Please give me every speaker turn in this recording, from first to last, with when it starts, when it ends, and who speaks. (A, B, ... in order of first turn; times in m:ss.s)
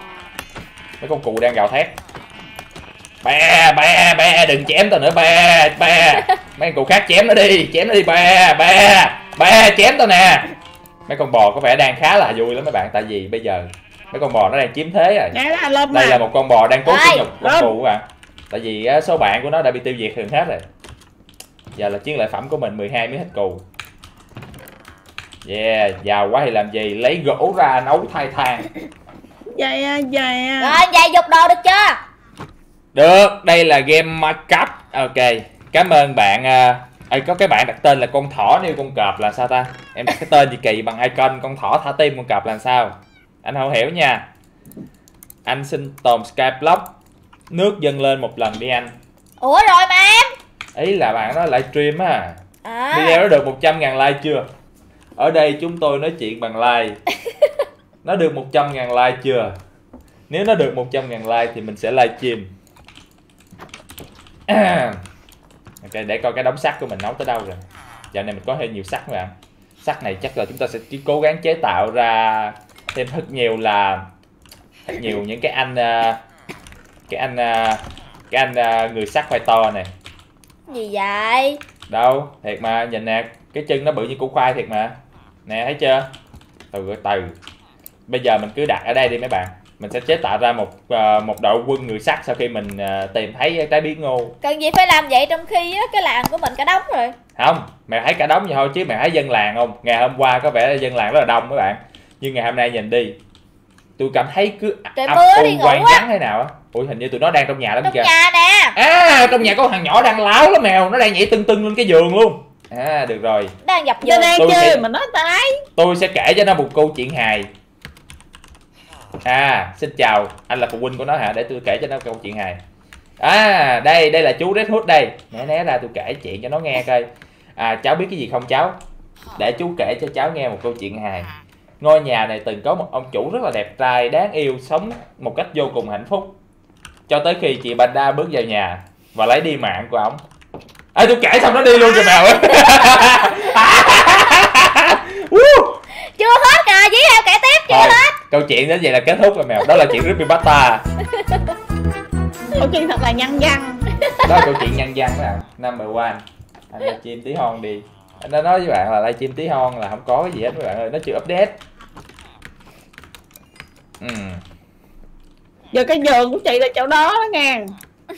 0:01.0-0:01.9 A
0:03.2-0:10.5 A
0:11.1-0:15.4 A
0:15.3-0:16.2 B
0:15.9-0:20.6 A
0:16.9-0:17.3 C
0:17.4-0:17.7 B
0:21.8-0:23.6 A
0:25.4-0:28.7 A
0:29.5-0:30.8 B
0:30.6-0:32.0 C
0:32.9-0:44.2 A
0:45.5-0:46.9 A
0:47.5-0:48.9 A
0:49.4-0:50.3 C
0:50.8-0:52.4 A
0:52.6-0:53.2 C
0:52.9-0:54.5 A
0:55.2-0:57.0 A
0:58.0-0:59.6 A
1:00.3-1:02.5 A
1:04.5-1:05.0 A
1:05.8-1:14.1 A
1:14.9-1:16.2 A
1:17.1-1:19.9 A
1:20.7-1:21.6 C
1:21.9-1:25.0 A
1:25.5-1:26.1 A
1:26.7-1:27.4 A
1:28.1-1:34.4 A
1:34.4-1:37.2 C
1:37.4-1:43.2 A
1:44.0-1:48.1 A
1:45.0-1:46.0 C
1:47.8-1:48.8 C
1:48.8-1:53.5 A
1:53.6-1:54.4 C
1:54.0-1:55.6 B
1:54.4-1:54.8 A
1:55.8-1:57.5 A
1:59.2-2:02.6 A
2:03.2-2:08.8 A
2:09.4-2:16.4 A
2:17.1-2:20.2 A
2:21.0-2:25.8 A
2:22.0-2:22.9 C
2:26.2-2:28.2 C
2:27.7-2:30.8 A
2:31.2-2:31.5 C
2:32.6-2:33.8 B
2:34.2-2:41.6 A
2:44.0-2:44.4 A
2:45.7-2:47.7 B